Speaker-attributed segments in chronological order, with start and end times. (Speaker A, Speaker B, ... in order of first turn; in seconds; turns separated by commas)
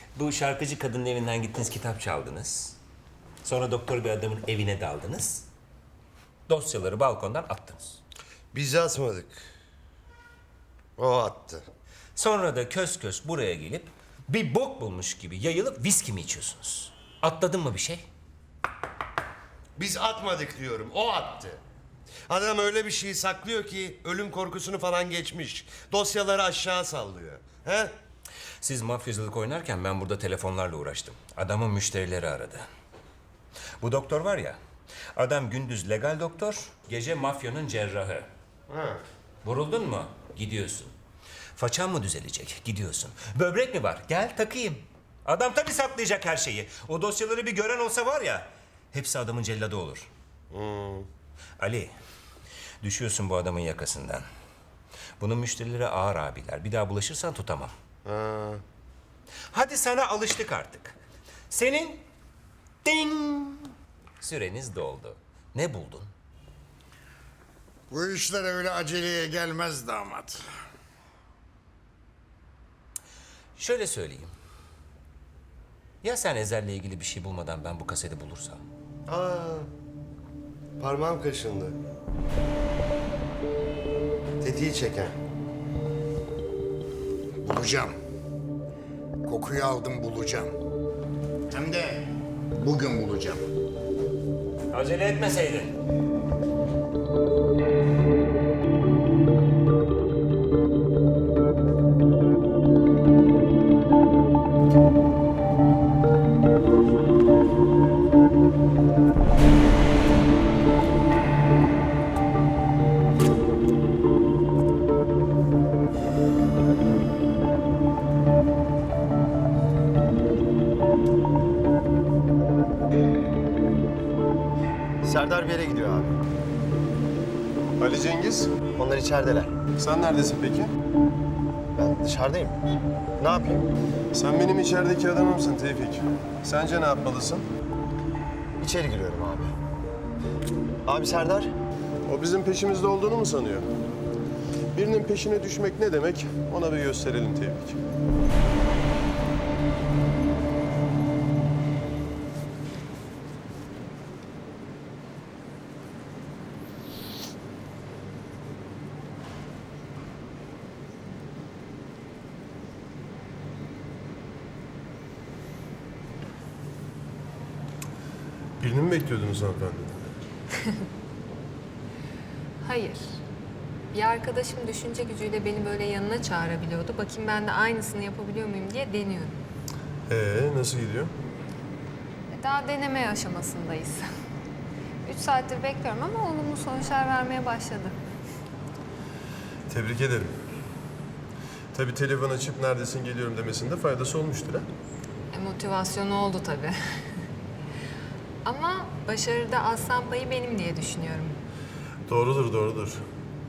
Speaker A: 0.1-2.8, Speaker A: 3.4-5.5, Speaker A: 6.5-8.0, Speaker B: 8.5-9.4, Speaker B: 11.0-11.7, Speaker A: 12.2-18.1, Speaker B: 19.8-21.6, Speaker B: 22.3-27.9, Speaker A: 28.6-32.7, Speaker A: 33.8-34.6, Speaker A: 35.1-38.3, Speaker B: 38.7-39.0, Speaker A: 39.4-40.9, Speaker A: 41.6-50.1, Speaker B: 50.5-51.1, Speaker A: 51.6-51.9, Speaker A: 52.8-54.2, Speaker A: 55.2-57.7, Speaker B: 58.0-58.6, Speaker A: 59.5-61.0, Speaker A: 61.5-62.0, Speaker A: 62.8-66.1, Speaker C: 67.9-70.4, Speaker A: 73.6-74.3, Speaker A: 76.0-78.6, Speaker B: 79.1-79.7, Speaker B: 80.8-81.8, Speaker B: 84.4-85.2, Speaker C: 87.4-87.9, Speaker C: 89.3-90.5, Speaker C: 91.5-93.4, Speaker A: 94.7-95.8, Speaker D: 125.0-126.2, Speaker E: 127.8-128.6, Speaker D: 128.8-129.6, Speaker E: 129.8-130.7, Speaker D: 131.8-132.6, Speaker D: 133.2-133.7, Speaker E: 134.1-137.5, Speaker D: 138.6-139.5, Speaker D: 140.8-141.6, Speaker E: 142.1-143.7, Speaker E: 144.8-147.8, Speaker E: 168.6-170.1, Speaker F: 172.6-173.2, Speaker F: 173.9-179.4, Speaker E: 180.1-181.1, Speaker F: 182.3-184.1, Speaker F: 185.1-188.0, Speaker E: 189.7-190.4, Speaker E: 191.7-194.7, Speaker F: 195.3-196.8, Speaker F: 198.4-201.4, Speaker E: 202.1-203.0